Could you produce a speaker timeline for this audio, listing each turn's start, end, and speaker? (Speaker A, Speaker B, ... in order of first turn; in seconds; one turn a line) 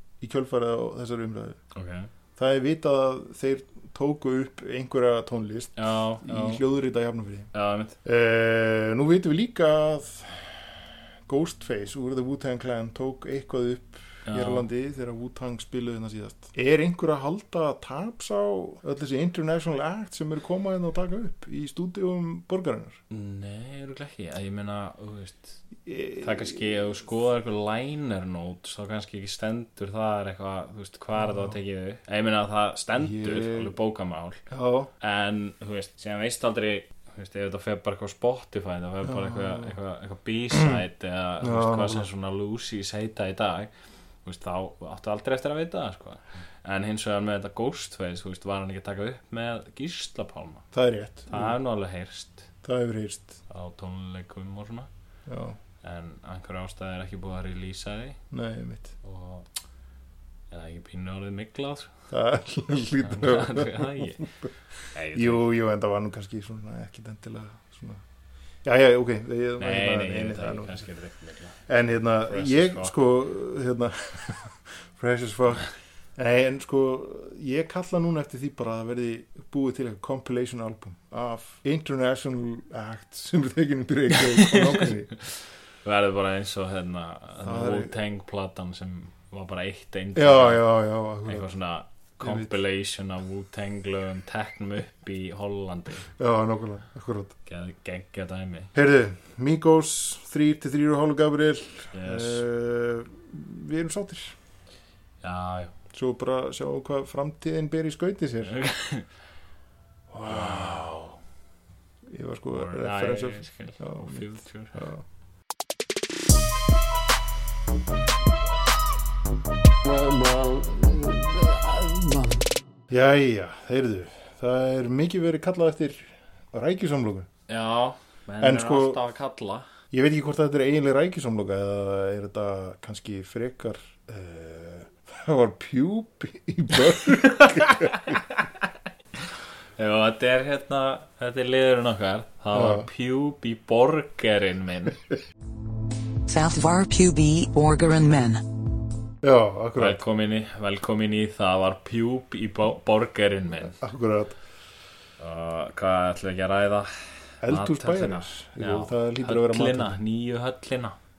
Speaker A: 0.2-1.6
Speaker B: 1.7-2.1
Speaker A: 2.4-7.5
Speaker B: 5.8-6.6
Speaker B: 7.5-8.0
Speaker A: 8.0-23.0
Speaker B: 14.2-14.7
Speaker B: 23.1-25.6
Speaker A: 25.8-26.8
Speaker B: 26.2-34.4
Speaker A: 31.2-31.5
Speaker A: 33.0-33.7
Speaker A: 34.5-34.9
Speaker B: 35.0-43.7
Speaker A: 39.0-39.7
Speaker A: 40.5-40.8
Speaker A: 41.4-42.1
Speaker B: 44.2-50.6
Speaker A: 50.7-51.5
Speaker B: 51.3-52.5
Speaker A: 52.6-53.4
Speaker B: 53.5-54.9
Speaker A: 55.3-55.6
Speaker B: 55.8-58.2
Speaker A: 58.3-58.9
Speaker B: 59.0-59.5
Speaker B: 60.5-61.9
Speaker A: 62.1-64.5
Speaker B: 63.0-64.3
Speaker B: 64.9-65.4
Speaker A: 65.1-68.0
Speaker A: 68.6-70.9
Speaker B: 69.6-71.6
Speaker A: 71.7-85.1
Speaker B: 72.2-72.9
Speaker B: 84.2-84.9
Speaker B: 85.8-90.7
Speaker A: 87.4-87.9
Speaker A: 90.1-91.5
Speaker B: 91.2-96.1
Speaker A: 92.2-92.5
Speaker A: 96.2-97.3
Speaker B: 97.5-98.7
Speaker A: 98.7-104.3
Speaker B: 101.9-102.4
Speaker B: 105.2-105.7
Speaker A: 105.9-108.5
Speaker B: 108.5-109.1
Speaker A: 110.1-110.9
Speaker B: 110.2-111.2
Speaker A: 112.0-115.0
Speaker B: 112.5-114.8
Speaker C: 119.8-122.5
Speaker A: 122.9-127.3
Speaker B: 127.5-129.7
Speaker A: 128.4-129.0
Speaker A: 129.9-138.1
Speaker B: 137.2-138.4
Speaker B: 139.8-145.0
Speaker A: 142.5-142.9
Speaker D: 146.3-148.4
Speaker A: 149.2-150.0
Speaker B: 149.8-153.8
Speaker A: 153.7-154.4
Speaker B: 155.2-161.0
Speaker A: 157.4-160.0